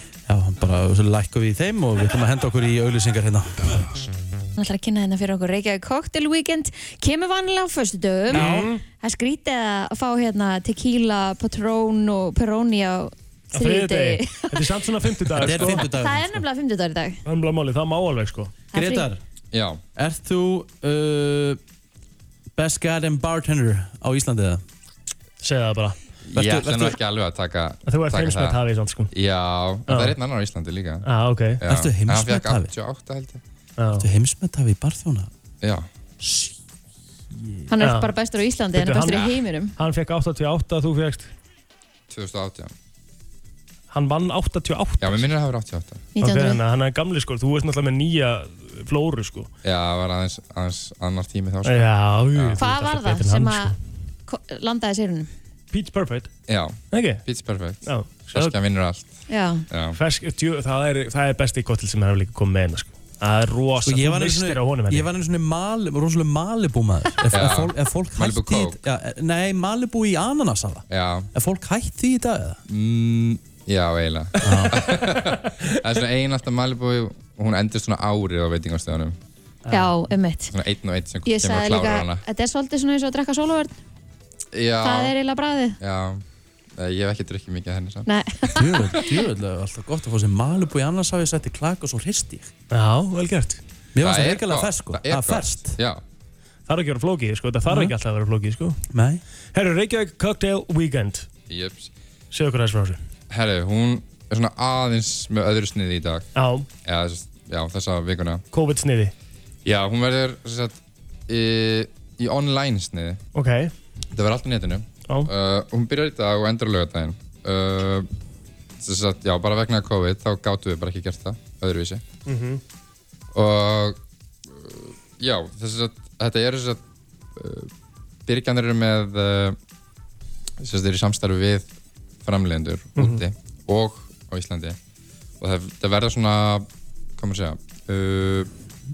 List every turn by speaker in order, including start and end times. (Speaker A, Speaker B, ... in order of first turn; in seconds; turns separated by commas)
Speaker A: 0.3-3.8, Speaker B: 4.6-17.2, Speaker A: 8.3-8.7, Speaker C: 8.3-8.8, Speaker C: 13.5-15.8, Speaker A: 15.4-16.4, Speaker C: 17.2-18.5, Speaker B: 18.7-19.1, Speaker A: 18.7-19.2, Speaker D: 19.5-19.8, Speaker A: 19.9-21.6, Speaker A: 22.6-24.6, Speaker C: 25.4-26.0, Speaker D: 26.3-28.6, Speaker A: 26.3-27.0, Speaker C: 27.9-29.1, Speaker D: 29.1-31.1, Speaker C: 29.9-30.1, Speaker C: 31.0-31.6, Speaker D: 31.6-33.4, Speaker A: 31.6-32.7, Speaker C: 33.8-34.0, Speaker A: 34.0-35.3, Speaker D: 35.6-35.9, Speaker B: 37.7-39.7, Speaker C: 37.8-38.1, Speaker C: 38.7-41.3, Speaker D: 42.1-42.7, Speaker C: 43.9-45.3, Speaker D: 45.0-46.1, Speaker B: 46.1-46.6, Speaker C: 46.2-49.5, Speaker D: 49.6-52.6, Speaker C: 51.6-53.7, Speaker B: 52.6-53.7, Speaker B: 54.3-55.3, Speaker C: 55.7-56.3, Speaker D: 56.5-60.0, Speaker C: 56.9-57.2, Speaker C: 57.8-58.5, Speaker B: 59.3-59.6, Speaker C: 59.9-65.1, Speaker A: 63.8-72.6, Speaker D: 67.3-68.8, Speaker D: 70.9-71.3, Speaker D: 72.7-79.2, Speaker A: 74.4-74.8, Speaker C: 79.6-79.9, Speaker B: 79.7-80.5, Speaker D: 80.5-82.2, Speaker B: 81.2-83.8, Speaker D: 84.5-85.1, Speaker B: 84.8-85.8, Speaker D: 85.8-86.2, Speaker D: 86.8-88.1, Speaker B: 88.0-89.0, Speaker A: 88.5-92.5, Speaker C: 92.7-93.6, Speaker A: 93.9-95.8, Speaker D: 94.0-96.0, Speaker C: 96.7-98.8, Speaker A: 97.7-97.9, Speaker A: 98.9-99.2, Speaker C: 99.5-101.3, Speaker D: 101.5-101.9, Speaker C: 102.3-103.0, Speaker D: 103.3-106.3, Speaker C: 106.3-106.7, Speaker D: 106.8-108.4, Speaker C: 108.5-109.1, Speaker D: 109.6-113.2, Speaker C: 113.3-113.7, Speaker D: 114.1-118.1, Speaker D: 118.8-122.0, Speaker C: 122.3-122.6, Speaker D: 123.3-126.8, Speaker D: 127.3-127.7, Speaker D: 128.3-129.6, Speaker D: 130.6-131.7, Speaker D: 132.2-134.8, Speaker C: 132.9-133.2, Speaker D: 135.4-136.7, Speaker D: 137.2-138.5